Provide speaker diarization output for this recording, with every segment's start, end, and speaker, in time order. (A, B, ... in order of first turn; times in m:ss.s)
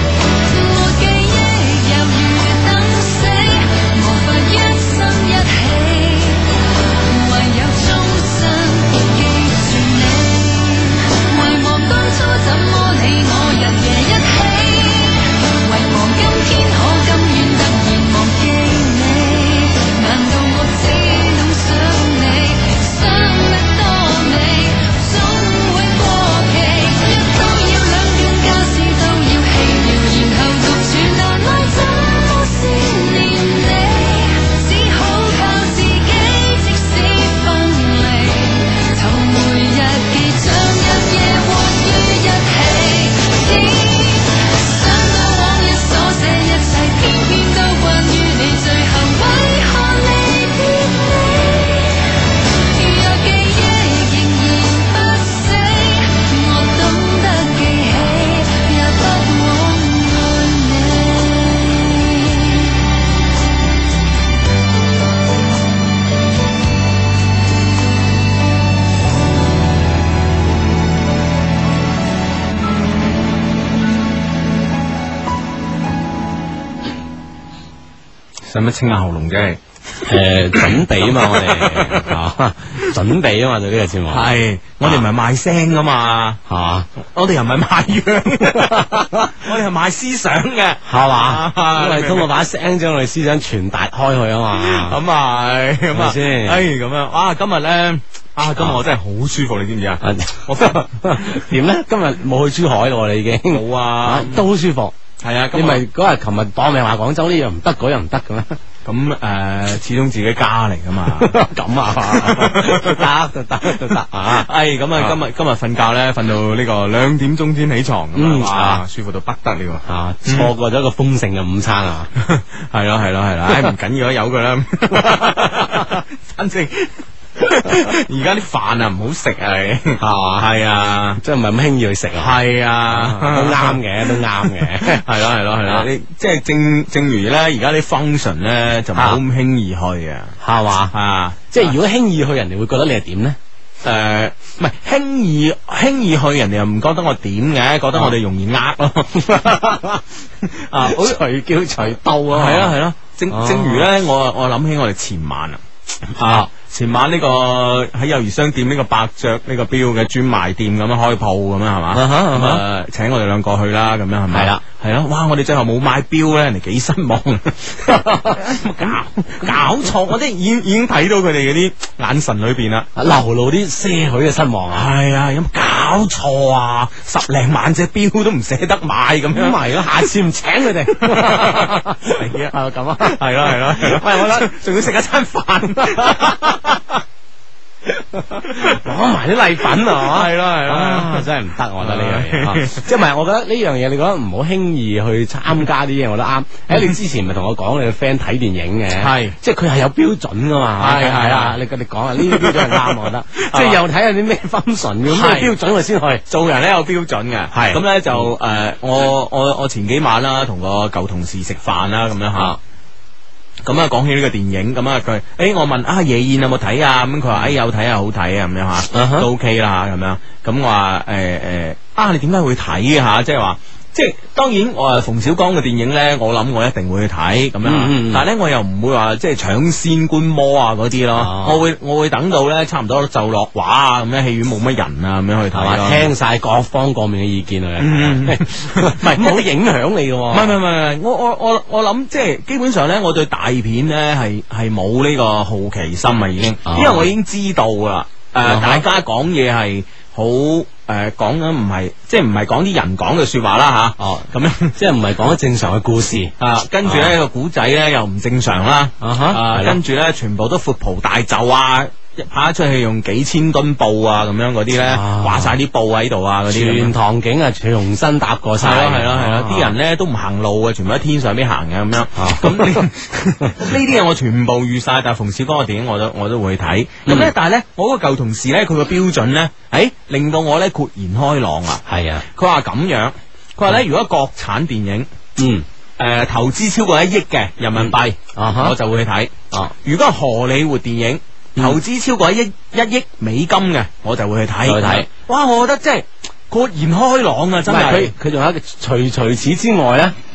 0:00.5-0:52.1 A
0:52.8-1:02.8 A
1:18.4-1:22.2 B
1:20.0-1:24.3 C
1:24.1-1:26.4 B
1:26.5-1:26.9 C
1:27.1-1:32.3 B
1:28.4-1:29.3 C
1:30.8-1:35.0 C
1:34.5-1:41.5 B
1:35.9-1:36.7 C
1:40.0-1:45.0 C
1:43.5-1:44.5 B
1:45.2-1:45.8 B
1:45.5-1:48.6 C
1:48.8-1:51.4 B
1:51.0-1:55.2 C
1:52.0-1:53.1 B
1:53.8-2:00.5 B
1:58.2-1:58.8 C
1:59.8-2:02.1 C
2:02.2-2:11.2 B
2:05.2-2:05.8 C
2:10.0-2:10.5 C
2:11.2-2:15.0 C
2:12.2-2:20.3 B
2:15.6-2:15.9 C
2:19.0-2:19.2 C
2:20.4-2:20.9 C
2:20.9-2:21.7 B
2:21.5-2:23.4 C
2:23.8-2:29.6 B
2:29.2-2:30.0 C
2:30.4-2:31.2 B
2:30.8-2:32.8 C
2:32.3-2:35.6 B
2:33.3-2:33.9 C
2:36.2-2:52.9 B
2:41.9-2:42.6 C
2:44.3-2:44.6 C
2:47.9-2:48.9 C
2:53.0-2:54.9 C
2:54.7-3:00.1 B
2:59.3-3:04.5 C
3:01.0-3:06.9 B
3:05.8-3:06.6 C
3:08.1-3:26.2 C
3:09.8-3:12.9 B
3:19.0-3:19.4 B
3:20.8-3:21.6 B
3:22.2-3:23.8 B
3:25.1-3:25.6 B
3:26.3-3:32.6 B
3:27.5-3:28.3 C
3:33.6-3:56.1 B
3:38.9-3:39.3 C
3:47.6-3:48.2 C
3:51.2-3:51.6 C
3:55.5-4:00.6 C
3:57.8-3:59.5 B
4:00.3-4:14.8 B
4:06.7-4:07.1 C
4:08.4-4:08.8 C
4:14.0-4:16.3 C
4:16.4-4:26.9 B
4:16.8-4:17.2 C
4:19.0-4:19.8 C
4:24.8-4:25.6 C
4:26.5-4:29.8 C
4:28.6-4:45.1 B
4:32.2-4:32.9 C
4:33.4-4:33.7 C
4:37.1-4:37.3 C
4:41.9-4:42.2 C
4:45.4-4:45.6 C
4:46.0-4:58.1 B
4:47.8-4:48.8 C
4:54.6-4:55.1 C
4:57.7-5:00.2 C